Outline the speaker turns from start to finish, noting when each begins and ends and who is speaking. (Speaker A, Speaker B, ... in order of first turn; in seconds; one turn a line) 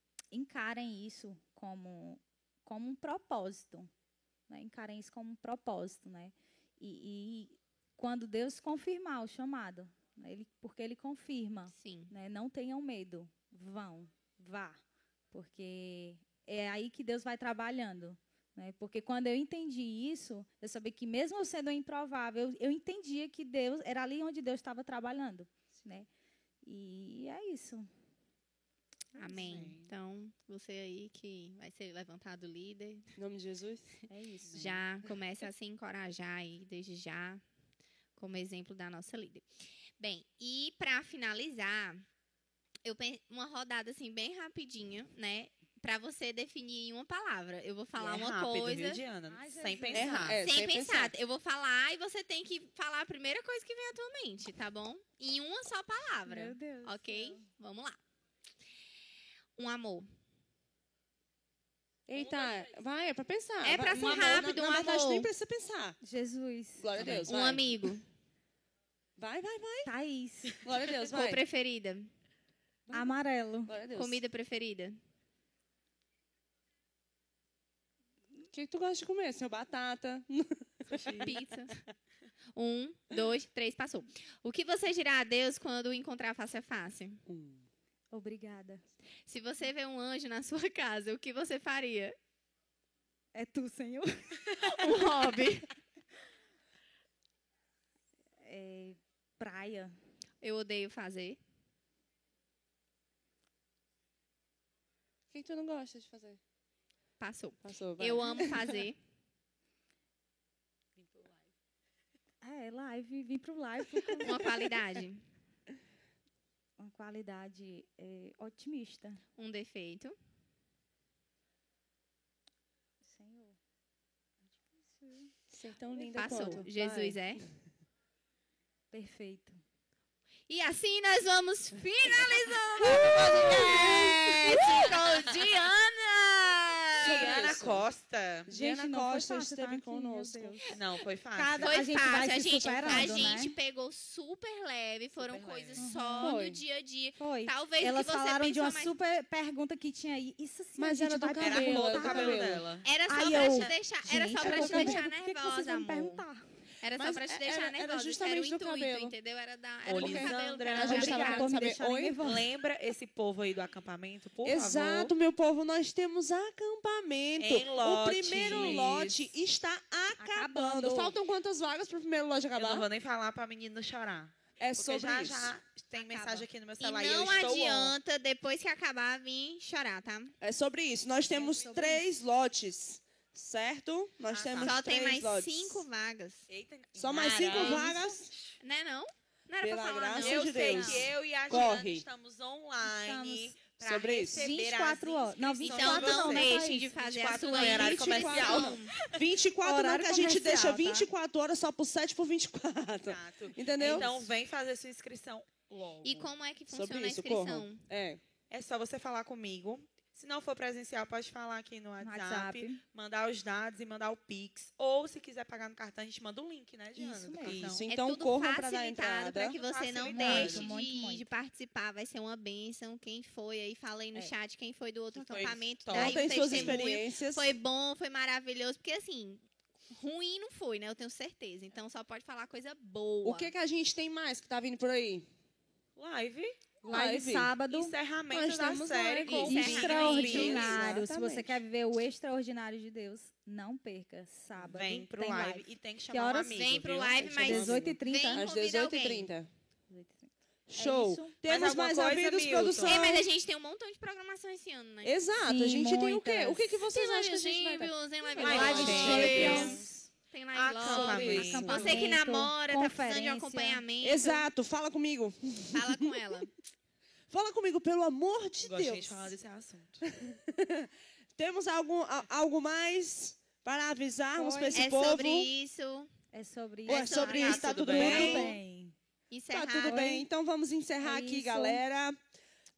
Speaker A: 0.3-3.9
Speaker A: 4.5-14.8
Speaker B: 11.7-12.1
Speaker A: 15.3-26.1
Speaker A: 26.6-27.9
Speaker B: 29.1-33.1
Speaker A: 29.2-29.5
Speaker C: 29.3-29.9
Speaker D: 33.2-33.9
Speaker A: 34.1-34.7
Speaker C: 34.5-34.8
Speaker B: 34.5-37.4
Speaker B: 38.2-39.5
Speaker B: 40.0-42.0
Speaker B: 42.9-49.0
Speaker C: 48.0-50.4
Speaker A: 49.3-50.3
Speaker D: 49.9-51.1
Speaker B: 50.4-58.0
Speaker A: 56.3-57.5
Speaker B: 59.6-60.1
Speaker D: 62.1-66.0
Speaker C: 62.2-62.7
Speaker B: 63.6-65.3
Speaker A: 66.0-67.3
Speaker D: 66.8-67.9
Speaker B: 67.2-68.0
Speaker D: 69.2-69.9
Speaker A: 69.8-70.6
Speaker D: 70.6-71.4
Speaker B: 71.0-72.1
Speaker D: 72.9-73.1
Speaker A: 72.9-73.7
Speaker D: 73.7-74.2
Speaker B: 73.9-75.0
Speaker D: 78.5-81.4
Speaker B: 81.2-81.8
Speaker B: 82.5-87.2
Speaker D: 87.3-87.7
Speaker A: 88.1-88.8
Speaker B: 89.3-92.2
Speaker A: 93.3-95.2
Speaker B: 94.6-95.7
Speaker A: 98.4-100.0
Speaker B: 100.4-101.4
Speaker D: 105.3-106.4
Speaker B: 107.2-109.0
Speaker D: 107.6-108.9
Speaker C: 111.0-111.5
Speaker A: 112.4-114.4
Speaker B: 114.2-115.2
Speaker A: 116.8-119.2
Speaker B: 119.4-120.1
Speaker A: 123.0-123.6
Speaker A: 124.5-125.3
Speaker D: 125.5-127.4
Speaker A: 126.0-126.6
Speaker B: 126.1-127.4
Speaker A: 128.9-129.6
Speaker B: 130.5-137.5
Speaker C: 132.9-135.1
Speaker D: 133.1-134.1
Speaker C: 137.0-138.5
Speaker D: 137.1-137.8
Speaker D: 138.5-140.6
Speaker A: 138.5-140.8
Speaker C: 140.7-141.8
Speaker A: 141.3-143.5
Speaker B: 141.6-148.9
Speaker C: 142.9-143.3
Speaker C: 145.2-145.9
Speaker A: 145.8-146.6
Speaker A: 147.2-156.4
Speaker D: 150.8-152.7
Speaker C: 151.4-153.7
Speaker B: 152.8-156.2
Speaker C: 154.4-154.8
Speaker D: 154.4-155.0
Speaker B: 156.8-161.5
Speaker D: 156.9-159.1
Speaker C: 159.9-161.5
Speaker D: 159.9-162.2
Speaker A: 160.8-162.5
Speaker C: 162.2-165.1
Speaker D: 164.4-172.9
Speaker C: 167.4-169.3
Speaker B: 168.4-168.8
Speaker A: 170.2-171.2
Speaker C: 172.6-177.9
Speaker D: 174.6-175.6
Speaker B: 175.9-180.3
Speaker D: 180.4-185.8
Speaker A: 181.3-182.1
Speaker C: 184.3-184.8
Speaker B: 184.6-186.5
Speaker C: 186.5-188.6
Speaker D: 187.0-188.3
Speaker B: 187.6-187.9
Speaker A: 187.6-188.0
Speaker B: 188.6-191.0
Speaker D: 189.6-192.1
Speaker C: 190.2-199.2
Speaker A: 192.8-193.6
Speaker D: 193.8-194.5
Speaker A: 194.3-196.9
Speaker B: 195.6-199.0
Speaker D: 197.5-204.3
Speaker A: 199.6-201.1
Speaker C: 203.0-206.3
Speaker B: 206.0-207.8
Speaker D: 206.7-208.2
Speaker C: 208.5-217.8
Speaker A: 212.0-212.8
Speaker A: 216.9-217.6
Speaker D: 217.5-219.6
Speaker B: 217.5-233.5
Speaker C: 219.5-220.7
Speaker A: 220.1-221.3
Speaker C: 225.1-226.9
Speaker D: 225.9-227.5
Speaker D: 233.2-235.2
Speaker C: 236.0-236.6
Speaker D: 236.8-237.6
Speaker A: 236.9-237.9
Speaker C: 237.7-240.8
Speaker D: 238.3-241.6
Speaker A: 239.2-246.6
Speaker B: 239.3-240.7
Speaker C: 244.6-248.0
Speaker B: 246.5-249.3
Speaker A: 247.2-248.4
Speaker D: 248.3-249.5
Speaker A: 249.9-251.4
Speaker D: 250.7-253.3
Speaker C: 251.4-253.0
Speaker B: 252.8-255.1
Speaker D: 255.0-259.9
Speaker A: 255.4-256.8
Speaker B: 256.9-264.4
Speaker A: 258.3-260.0
Speaker C: 258.4-259.9
Speaker C: 260.5-261.9
Speaker D: 260.8-262.1
Speaker A: 261.4-263.8
Speaker D: 264.0-266.1
Speaker B: 265.7-266.5
Speaker D: 267.3-269.3
Speaker C: 268.6-270.1
Speaker D: 270.1-275.5
Speaker A: 274.3-274.9
Speaker B: 274.8-276.1
Speaker A: 276.3-278.9
Speaker C: 276.9-278.6
Speaker D: 276.9-278.6
Speaker B: 279.3-280.1
Speaker D: 279.5-282.2
Speaker A: 279.9-280.3
Speaker A: 281.0-281.8